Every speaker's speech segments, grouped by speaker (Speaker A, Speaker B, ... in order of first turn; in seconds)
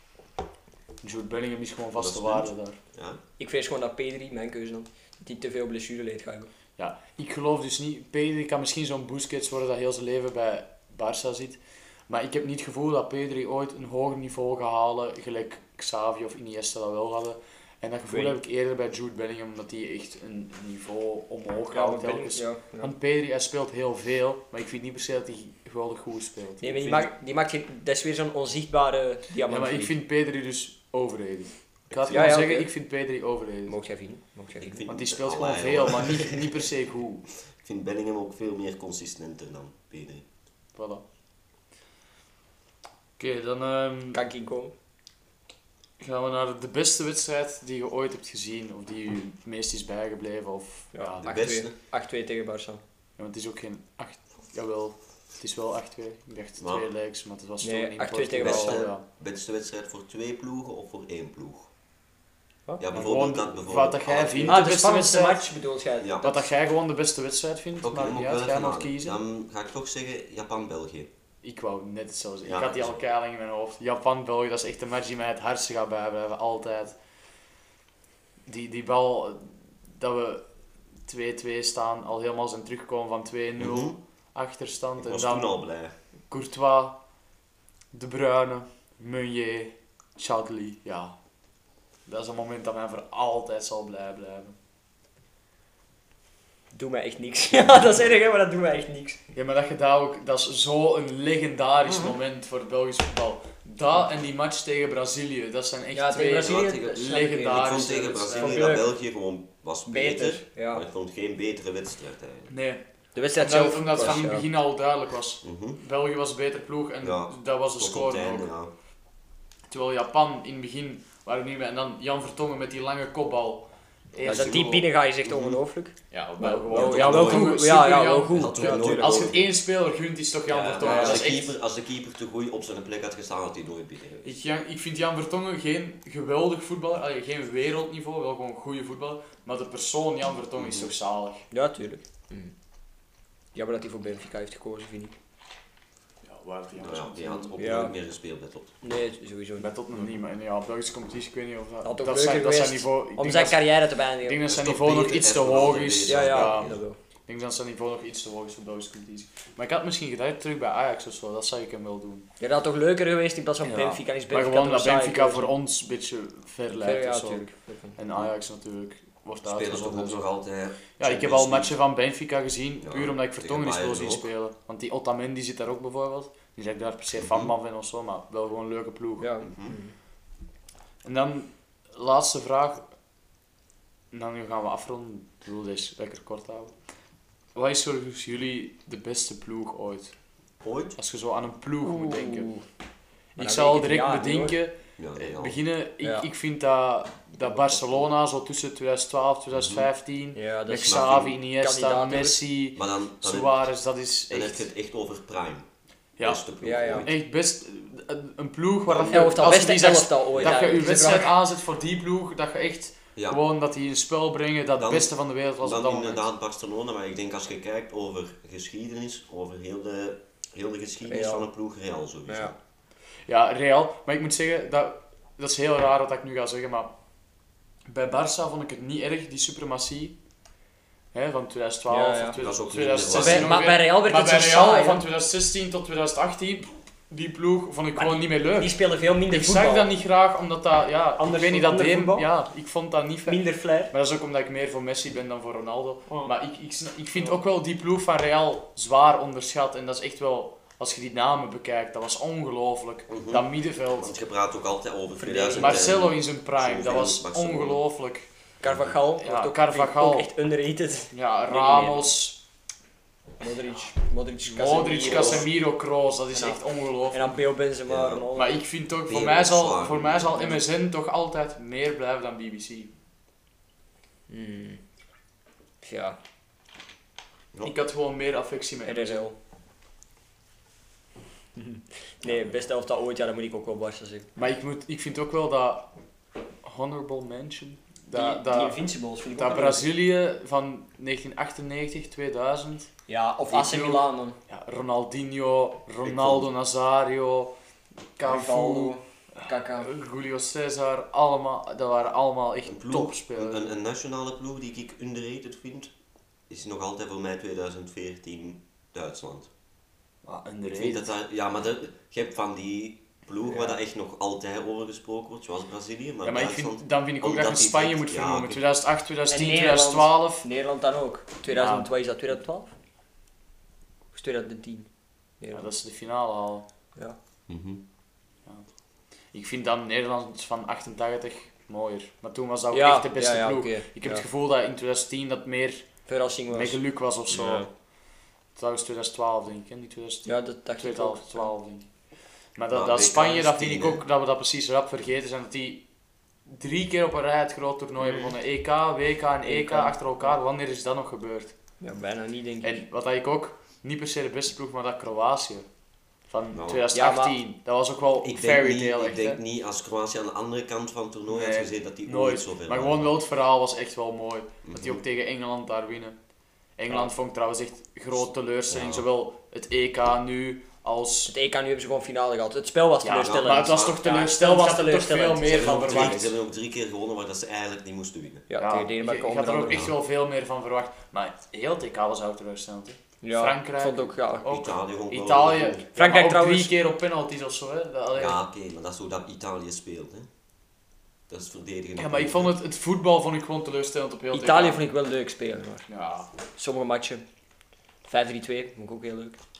Speaker A: 1.0-2.8, 6.8-27.1, 29.5-33.8, 34.9-37.2, 40.7-41.0, 43.2-44.2, 46.0-51.2, 53.2-59.0, 62.9-65.5, 66.2-69.2, 71.4-77.0, 78.5-80.4, 81.0-85.5, 86.3-87.0, 87.9-91.2, 92.0-94.5, 99.3-108.7, 112.5-112.8, 113.3-118.5, 119.7-124.9, 126.1-131.5, 134.2-141.5, 146.2-147.6, 149.6-156.8, 157.3-162.2, 163.6-167.4, 168.0-170.3, 171.0-179.3, 181.0-182.9, 184.1-186.7, 187.5-190.1, 190.9-192.5, 193.4-204.7, 206.2-206.4, 207.0-216.3, 223.2-226.9, 227.9-230.2, 231.1-238.8, 239.3-254.1, 255.5-258.3, 259.2-260.3, 261.1-262.4, 264.4-267.3, 268.3-272.9, 277.6-279.3, 284.4-285.9, 286.6-288.8, 289.4-292.9, 293.5-297.5, 298.2-303.7, 310.2-311.1, 316.2-320.4, 321.5-321.9, 325.5-326.6, 329.3-335.9, 336.5-337.7, 338.6-341.9, 342.6-345.8, 346.4-351.5, 352.6-355.7, 356.3-359.4, 361.3-366.1, 366.8-371.3, 373.0-376.3, 378.6-388.4, 392.0-394.8, 395.9-396.3
Speaker B: 1.9-3.2, 31.9-32.4, 34.6-36.6, 37.4-40.2, 51.2-51.7, 56.6-56.8, 58.4-61.7, 62.8-64.6, 66.0-66.3, 67.8-71.1, 72.4-73.0, 83.6-84.0, 85.0-85.9, 106.4-112.5, 115.4-115.8, 117.0-118.7, 124.3-124.7, 125.2-125.6, 126.7-127.5, 128.3-129.5, 130.5-134.3, 140.6-140.9, 146.8-148.7, 154.4-156.8, 169.4-171.8, 172.8-174.3, 177.2-177.5, 179.4-179.8, 190.6-190.9, 195.0-195.6, 199.5-199.9, 200.8-201.3, 202.7-203.6, 204.3-205.7, 206.2-207.1, 208.9-209.3, 210.3-210.7, 214.8-222.6, 232.3-233.6, 253.1-257.8, 258.6-258.9, 265.1-265.4, 267.9-268.2, 269.1-270.6, 296.0-296.4, 302.6-305.9, 306.5-309.5, 310.7-318.6, 327.5-327.8, 342.7-344.0, 356.5-356.8, 358.2-363.1, 364.6-365.0, 368.7-369.0, 375.5-378.4, 379.7-379.9, 384.4-385.9, 388.1-390.3, 391.3-392.5
Speaker C: 3.4-6.5, 18.1-18.4, 21.7-22.9, 26.6-29.9, 32.1-32.7, 33.7-34.8, 44.1-44.7, 50.9-52.8, 57.6-58.8, 64.5-66.4, 96.7-99.2, 101.8-102.2, 105.9-108.9, 109.9-110.8, 113.1-114.4, 124.2-129.3, 130.8-131.3, 141.5-142.5, 143.5-145.1, 147.6-147.9, 148.8-150.0, 151.8-154.4, 156.1-157.0, 162.4-165.5, 166.8-168.0, 179.2-179.9, 191.8-192.6, 193.3-194.5, 197.4-198.0, 200.3-202.4, 206.6-207.1, 209.1-211.3, 221.1-221.5, 231.9-232.4, 233.1-235.0, 237.9-239.9, 241.2-242.3, 243.2-243.9, 246.1-246.3, 255.2-255.9, 258.6-262.1, 263.4-265.5, 266.3-268.5, 274.3-274.8, 275.8-276.2, 278.8-279.4, 281.6-284.3, 288.1-289.8, 293.1-294.4, 298.2-299.9, 319.3-322.7, 324.1-324.9, 325.4-325.6, 332.7-334.2, 336.1-337.7, 340.2-341.5, 348.0-348.3, 349.4-350.1, 351.8-352.8, 356.9-357.4, 371.3-376.3, 378.5-379.9, 383.2-384.5, 385.9-386.7, 394.3-395.9, 396.5-397.2, 398.1-399.4